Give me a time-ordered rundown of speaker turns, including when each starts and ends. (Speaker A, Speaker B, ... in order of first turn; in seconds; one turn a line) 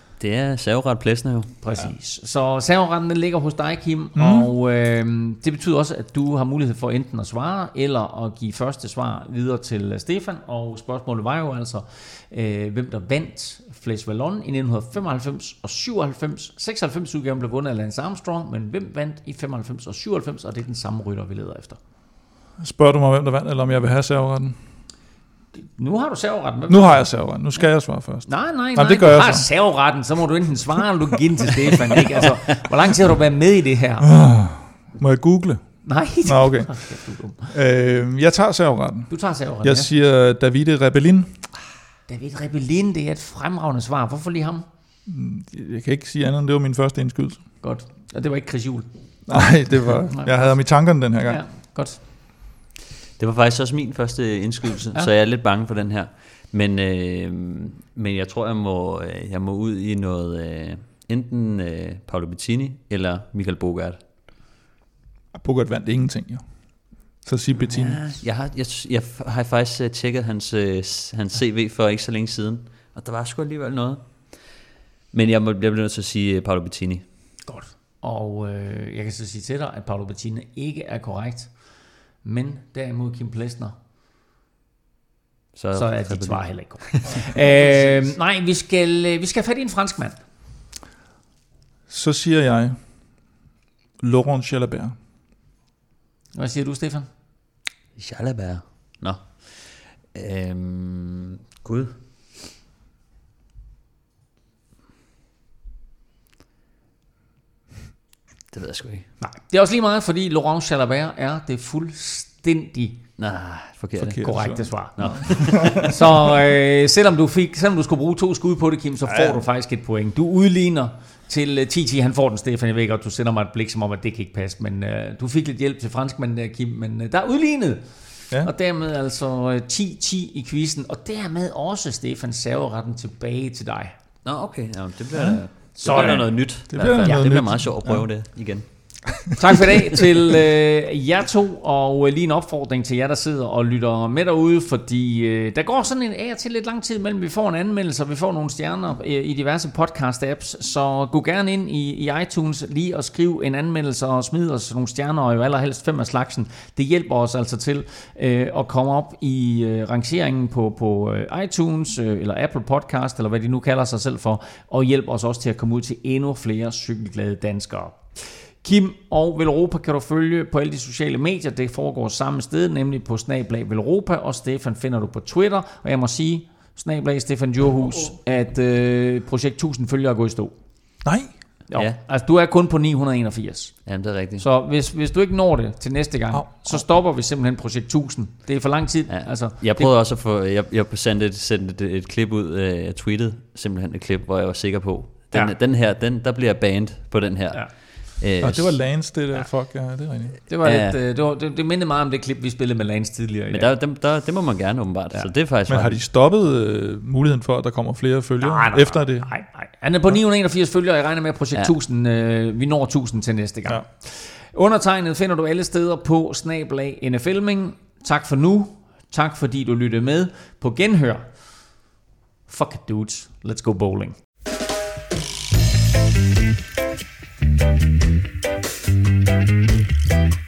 Speaker A: 0.2-1.5
Speaker B: 1.6-21.8
Speaker C: 4.1-4.5
Speaker C: 22.6-24.8
Speaker B: 25.6-27.1
Speaker C: 26.7-29.5
Speaker B: 28.2-34.1
Speaker C: 34.0-41.5
Speaker B: 35.8-37.5
Speaker B: 39.1-39.9
Speaker B: 42.1-44.6
Speaker C: 45.0-47.5
Speaker B: 47.6-52.0
Speaker C: 49.3-51.4
Speaker A: 53.2-64.0
Speaker C: 65.3-68.0
Speaker A: 67.7-74.6
Speaker A: 75.1-77.1
Speaker B: 77.4-83.7
Speaker A: 85.5-87.2
Speaker B: 85.7-90.2
Speaker C: 87.5-88.2
Speaker C: 91.9-93.2
Speaker C: 94.0-95.0
Speaker B: 96.3-97.1
Speaker A: 98.0-102.0
Speaker A: 108.5-109.1
Speaker B: 109.2-113.0
Speaker A: 113.2-114.3
Speaker C: 114.0-116.0
Speaker B: 114.2-133.9
Speaker A: 115.0-115.9
Speaker C: 119.0-119.4
Speaker A: 134.2-139.2
Speaker C: 135.1-138.8
Speaker B: 135.8-137.3
Speaker B: 139.3-181.0
Speaker C: 181.0-181.4
Speaker B: 181.7-189.9
Speaker A: 183.8-184.4
Speaker C: 186.3-186.8
Speaker A: 189.1-198.8
Speaker C: 198.4-200.4
Speaker B: 200.5-203.7
Speaker A: 200.6-201.0
Speaker A: 203.5-206.0
Speaker C: 205.7-209.4
Speaker B: 208.4-221.8
Speaker B: 222.5-224.2